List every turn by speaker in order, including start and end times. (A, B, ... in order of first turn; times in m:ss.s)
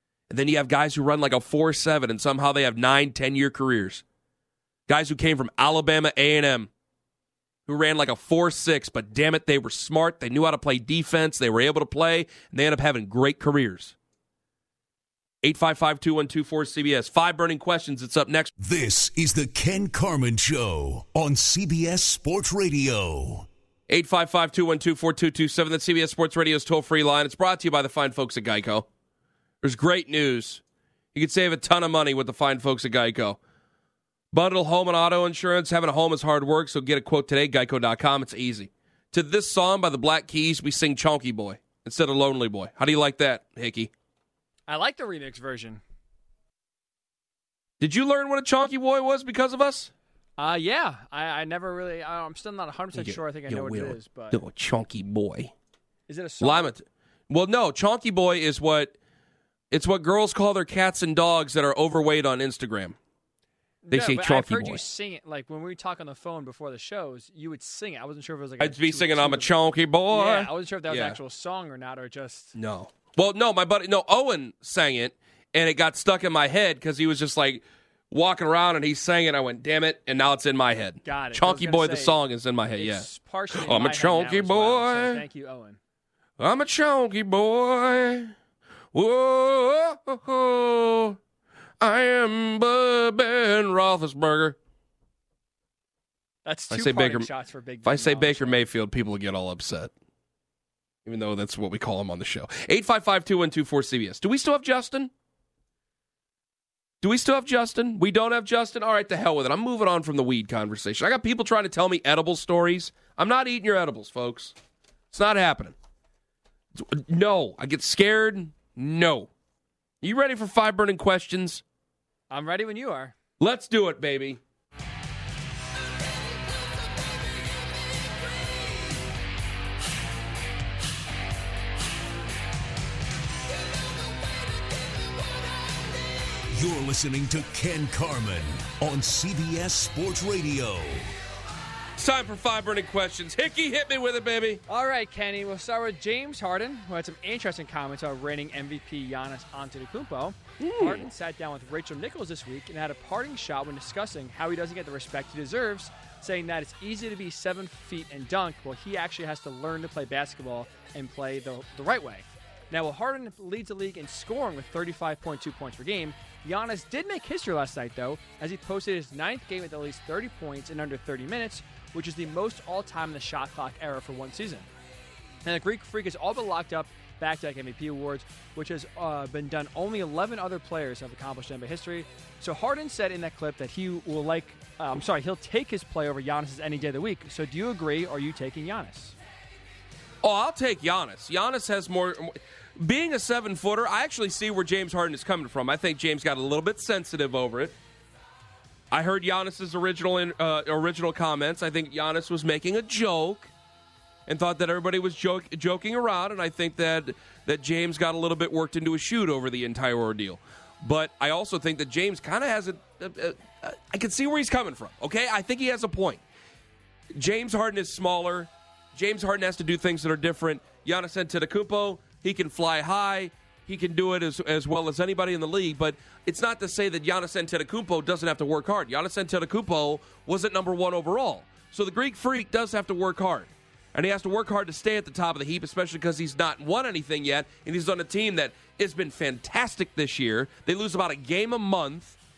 0:00.3-0:04.0 A
0:04.9-0:06.7 A
0:07.7-0:14.0 A
0:15.4-0:18.5 A
0:18.6-0:23.5 B
0:23.9-0:28.9 A
0:29.6-0:30.6 A
0:31.1-0:33.4 A
0:34.3-0:43.9 A
0:44.7-0:45.8 C
0:47.8-0:49.9 A
0:50.4-0:54.4 C
0:53.0-0:55.5 A
0:56.1-0:56.7 C
0:56.4-0:58.9 A
0:59.7-1:03.0 A
1:03.8-1:09.5 C
1:03.9-1:04.8 A
1:08.6-1:11.2 A
1:10.1-1:12.6 C
1:12.6-1:25.2 A
1:21.0-1:22.1 C
1:22.8-1:25.8 C
1:26.4-1:28.3 A
1:28.9-1:31.2 A
1:31.8-1:34.6 A
1:36.4-1:38.6 C
1:36.7-1:37.3 A
1:37.8-1:39.9 A
1:41.0-1:45.1 A
1:47.0-1:54.6 A
1:55.1-1:55.8 A
1:56.8-1:59.3 A
2:00.0-2:01.6 A
2:02.3-2:03.1 C
2:03.4-2:04.4 A
2:16.6-2:21.1 B
2:22.0-2:24.6 A
2:24.7-2:54.7 C
2:30.6-2:31.1 A
2:55.4-3:09.2 C
3:10.2-3:17.8 A
3:18.9-3:23.5 A
3:24.3-3:36.2 A
3:37.2-4:02.2 A